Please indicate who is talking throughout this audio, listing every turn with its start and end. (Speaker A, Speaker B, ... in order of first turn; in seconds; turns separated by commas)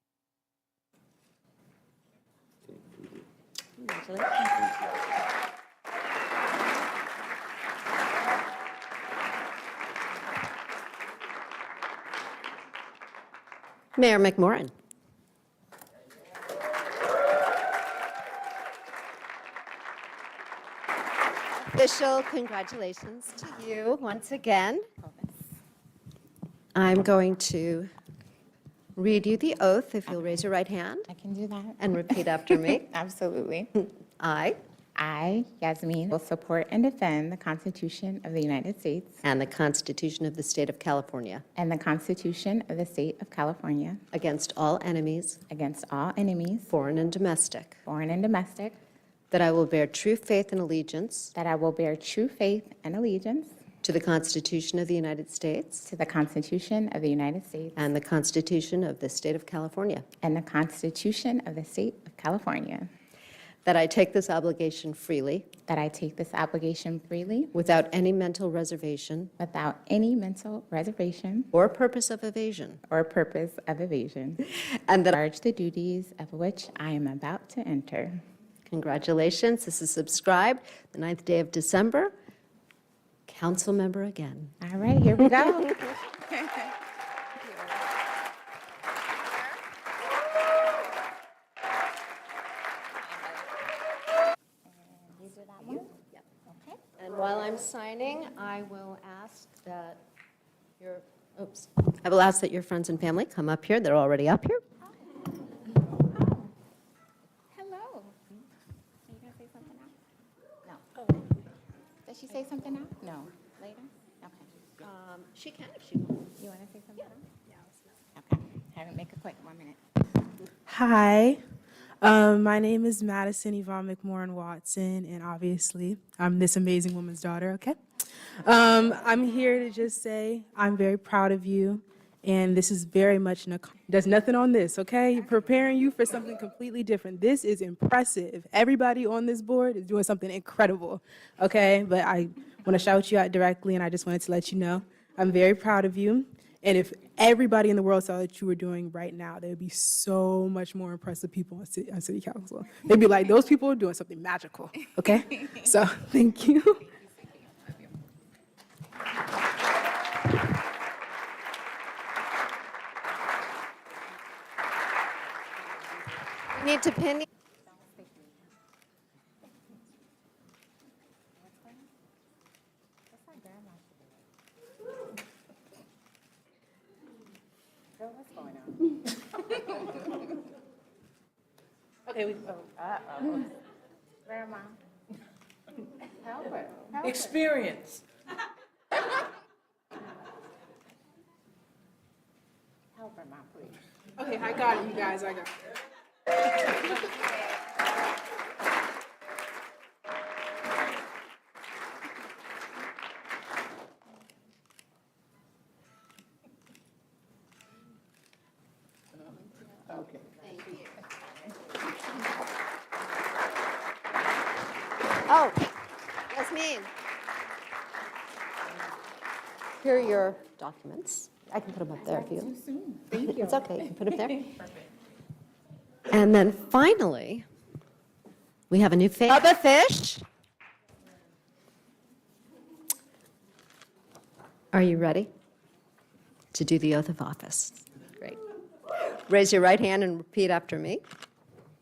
Speaker A: 3.8-4.4, Speaker A: 14.0-14.7, Speaker A: 21.6-24.9, Speaker B: 25.0-25.4, Speaker A: 26.8-27.9, Speaker A: 29.0-31.1, Speaker B: 31.1-31.9, Speaker A: 31.8-32.9, Speaker B: 32.7-33.7, Speaker A: 34.2-34.6, Speaker B: 35.0-39.2, Speaker A: 39.2-41.5, Speaker B: 41.6-44.0, Speaker A: 44.1-45.4, Speaker B: 45.5-46.7, Speaker A: 46.7-47.8, Speaker B: 47.9-48.8, Speaker A: 49.3-51.3, Speaker B: 51.4-53.6, Speaker A: 53.8-55.9, Speaker B: 55.9-57.8, Speaker A: 57.8-60.0, Speaker B: 60.2-62.9, Speaker A: 63.6-65.5, Speaker B: 65.7-67.5, Speaker A: 67.5-69.3, Speaker B: 69.4-71.5, Speaker A: 71.5-72.8, Speaker B: 72.9-74.4, Speaker A: 74.4-75.1, Speaker B: 75.1-78.2, Speaker A: 78.7-82.1, Speaker A: 83.3-84.6, Speaker B: 84.6-86.0, Speaker B: 94.7-96.8, Speaker A: 97.0-100.0, Speaker A: 100.8-104.6, Speaker B: 106.1-106.5, Speaker B: 107.5-108.3, Speaker B: 109.1-109.9, Speaker B: 110.7-111.0, Speaker B: 112.0-114.5, Speaker A: 114.8-116.3, Speaker B: 116.4-117.3, Speaker B: 118.2-119.8, Speaker C: 120.7-121.4, Speaker C: 122.0-127.8, Speaker C: 128.4-156.8, Speaker A: 166.6-167.2, Speaker B: 167.7-168.3, Speaker B: 171.4-171.9, Speaker B: 173.1-174.2, Speaker B: 178.0-179.5, Speaker B: 182.1-183.5, Speaker B: 184.3-184.8, Speaker B: 186.1-187.5, Speaker C: 187.2-188.0, Speaker B: 192.9-193.8, Speaker C: 194.2-195.5, Speaker A: 215.3-215.7, Speaker A: 216.3-216.9, Speaker A: 219.8-222.6, Speaker B: 222.4-223.3, Speaker A: 223.1-224.6, Speaker A: 226.1-227.5, Speaker A: 228.7-230.2, Speaker A: 234.7-235.3, Speaker A: 236.5-238.3, Speaker A: 239.2-241.0